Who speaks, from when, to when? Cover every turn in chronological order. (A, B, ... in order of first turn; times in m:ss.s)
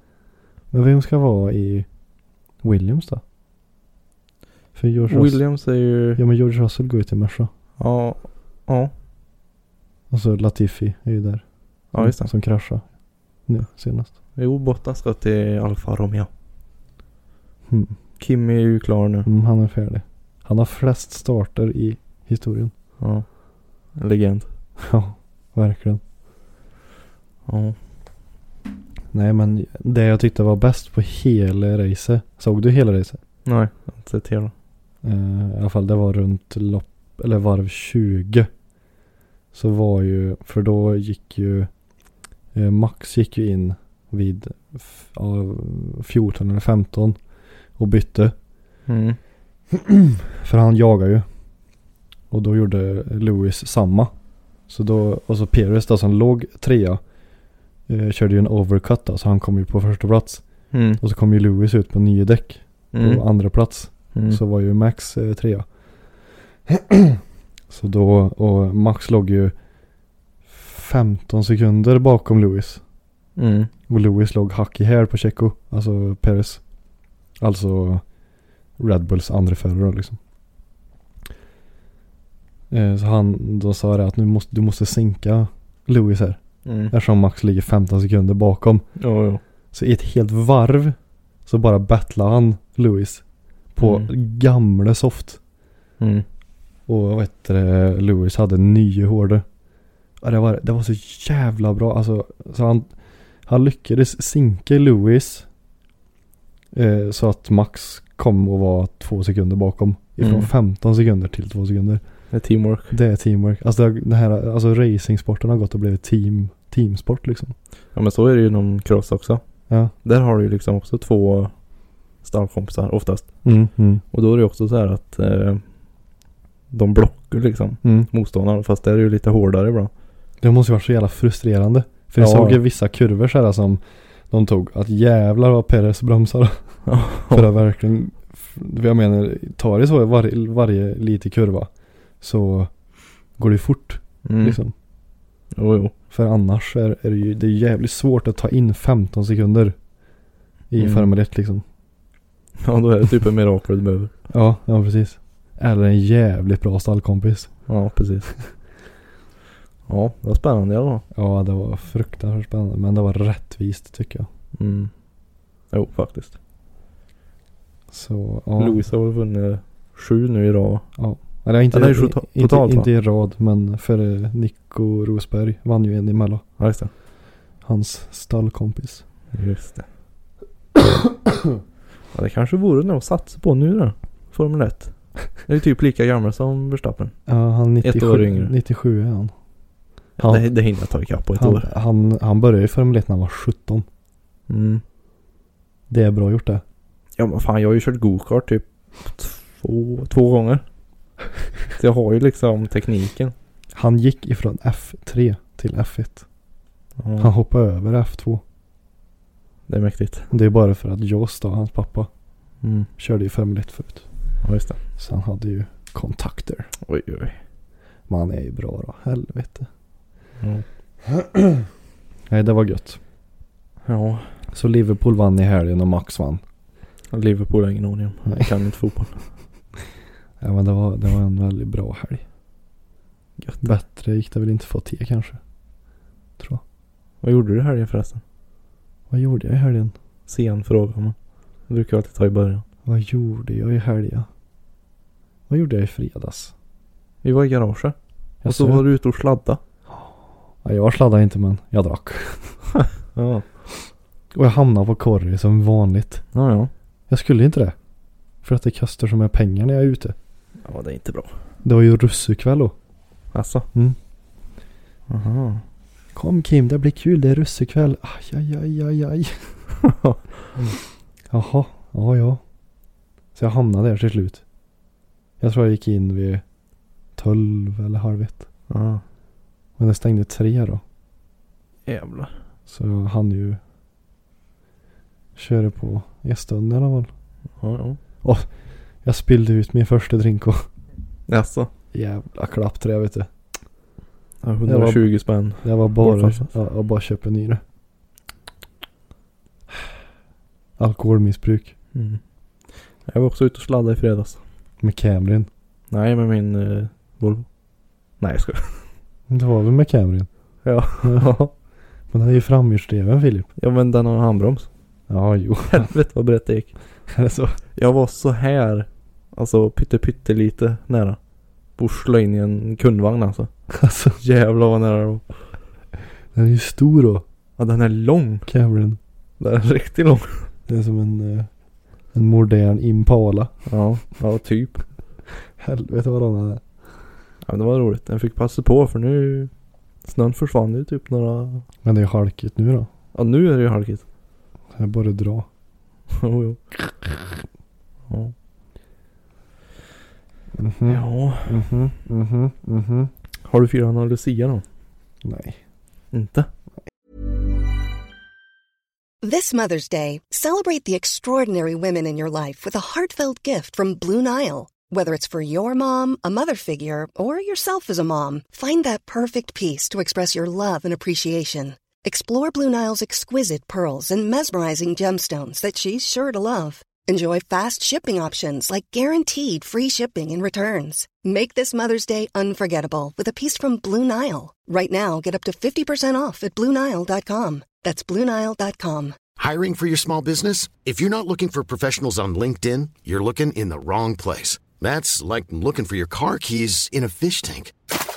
0:00.7-0:01.9 A
0:02.6-0:03.2 A
0:04.8-0:05.4 A
0:05.1-0:06.2 B
0:06.2-0:07.5 A
0:07.8-0:08.9 B
0:10.1-0:11.4 A
0:11.9-0:12.3 B
0:12.0-0:12.8 A
0:13.5-0:14.1 A
0:14.4-0:16.3 B
0:17.7-0:18.0 A
0:18.2-0:19.3 B
0:19.2-0:22.7 A
0:23.0-0:23.3 B
0:24.0-0:24.5 B
0:24.8-0:26.0 A
0:27.5-0:27.8 B
0:29.1-0:33.2 A
0:33.4-0:34.5 B
0:35.0-0:38.5 A
0:39.5-0:41.7 A
0:42.5-0:47.2 A
0:47.8-0:48.3 A
0:48.9-0:49.2 B
0:49.7-0:51.2 A
0:52.3-0:54.1 A
0:54.7-0:57.0 A
0:57.9-1:00.4 A
1:00.7-1:01.0 B
1:01.0-1:05.7 A
1:02.9-1:03.2 B
1:04.1-1:04.4 B
1:06.7-1:09.6 A
1:10.5-1:12.8 A
1:13.4-1:13.7 B
1:13.9-1:16.6 A
1:17.4-1:18.0 A
1:18.8-1:20.2 A
1:22.7-1:28.8 A
1:26.6-1:26.9 B
1:29.0-1:29.4 B
1:29.7-1:33.2 A
1:33.8-1:35.4 A
1:33.8-1:34.1 B
1:36.0-1:36.3 B
1:36.9-1:39.4 A
1:40.2-1:42.9 A
1:43.5-1:45.5 A
1:46.7-1:52.0 A
1:50.2-1:50.5 B
1:52.3-1:53.0 B
1:52.9-1:57.5 A
1:58.0-1:59.4 B
2:00.0-2:01.5 B
2:02.2-2:03.3 B
2:03.4-2:04.0 A
2:04.1-2:05.6 B
2:06.7-2:09.9 B
2:07.8-2:08.1 A
2:10.4-2:21.7 A
2:12.2-2:12.6 B
2:16.9-2:17.5 B
2:22.2-2:22.7 A
2:23.4-2:24.7 A
2:24.2-2:24.6 B
2:25.5-2:25.9 B
2:26.1-2:29.8 A
2:30.7-2:31.6 A
2:30.8-2:31.1 B
2:32.6-2:34.1 B
2:34.3-2:37.5 A
2:37.7-2:38.3 B
2:39.9-2:41.0 B
2:41.1-2:44.3 A
2:44.6-2:44.9 B
2:45.7-2:46.4 B
2:47.9-2:48.8 A
2:48.6-2:50.9 B
2:51.0-2:56.4 A
2:51.7-2:52.9 B
2:56.6-2:56.9 B
2:57.6-2:59.0 A
2:59.3-2:59.9 B
3:02.1-3:07.2 B
3:07.3-3:09.3 A
3:07.8-3:08.5 B
3:10.2-3:11.7 B
3:10.2-3:10.5 A
3:11.4-3:13.9 A
3:14.5-3:14.8 B
3:15.9-3:16.6 A
3:17.2-3:20.6 B
3:21.8-3:23.3 B
3:23.7-3:26.2 A
3:27.0-3:27.3 B
3:27.2-3:28.4 A
3:29.7-3:30.3 B
3:30.3-3:32.1 A
3:32.6-3:32.9 B
3:33.0-3:34.1 A
3:34.4-3:34.8 B
3:35.0-3:36.7 A
3:36.8-3:37.4 B
3:38.1-3:39.7 A
3:40.4-3:40.6 B
3:41.1-3:41.6 A
3:42.3-3:43.0 A
3:43.8-3:44.3 B
3:44.5-3:46.4 A
3:47.1-3:49.2 B
3:50.4-3:52.2 A
3:53.4-3:53.7 B
3:53.6-3:55.4 A
3:57.2-3:58.2 B
3:59.1-3:59.9 A
4:00.3-4:01.2 B
4:01.7-4:02.6 B
4:02.8-4:04.3 A
4:05.5-4:06.5 A
4:07.2-4:09.6 B
4:08.4-4:08.9 A
4:10.6-4:12.6 A
4:13.2-4:13.5 B
4:14.3-4:16.2 A
4:16.3-4:16.7 B
4:17.1-4:17.8 A
4:18.4-4:20.2 A
4:20.6-4:21.3 B
4:21.6-4:22.7 A
4:23.3-4:23.7 B
4:25.1-4:25.6 B
4:26.1-4:29.6 A
4:29.8-4:30.2 B
4:31.3-4:32.4 A
4:33.4-4:34.4 A
4:35.4-4:36.4 A
4:37.2-4:38.4 A
4:38.7-4:39.0 B
4:39.8-4:40.8 A
4:41.9-4:42.4 B
4:42.7-4:43.6 A
4:45.4-4:47.1 A
4:47.6-4:48.0 B
4:48.2-4:48.5 A
4:49.0-4:50.7 A
4:51.3-4:51.7 B
4:51.9-4:53.3 A
4:54.4-4:56.5 B
4:54.6-4:57.6 A
5:00.8-5:01.7 A
5:01.9-5:02.2 B
5:03.1-5:04.4 B
5:04.8-5:05.5 A
5:05.9-5:07.5 B
5:08.2-5:08.9 B
5:09.3-5:10.3 A
5:10.6-5:11.5 B
5:11.0-5:11.3 A
5:12.1-5:13.5 A
5:13.6-5:14.7 B
5:15.1-5:15.9 A
5:15.7-5:16.7 B
5:17.1-5:17.6 A
5:17.8-5:21.2 B
5:21.8-5:23.5 B
5:23.7-5:24.2 A
5:24.2-5:25.3 B
5:26.3-5:27.2 A
5:27.6-5:28.5 B
5:28.5-5:29.0 A
5:29.4-5:30.5 B
5:30.7-5:31.5 A
5:32.1-5:33.5 A
5:33.7-5:34.8 B
5:35.6-5:36.6 A
5:37.4-5:39.5 B
5:40.0-5:41.7 B
5:41.8-5:42.9 A
5:43.1-5:44.0 B
5:44.8-5:45.5 A
5:46.1-5:46.6 B
5:48.1-5:48.3 B
5:50.6-5:53.1 A
5:50.9-5:51.7 B
5:53.4-5:54.6 B
5:55.2-5:55.6 A
5:56.1-5:56.5 B
5:59.2-6:29.2 C
6:29.4-6:37.7 D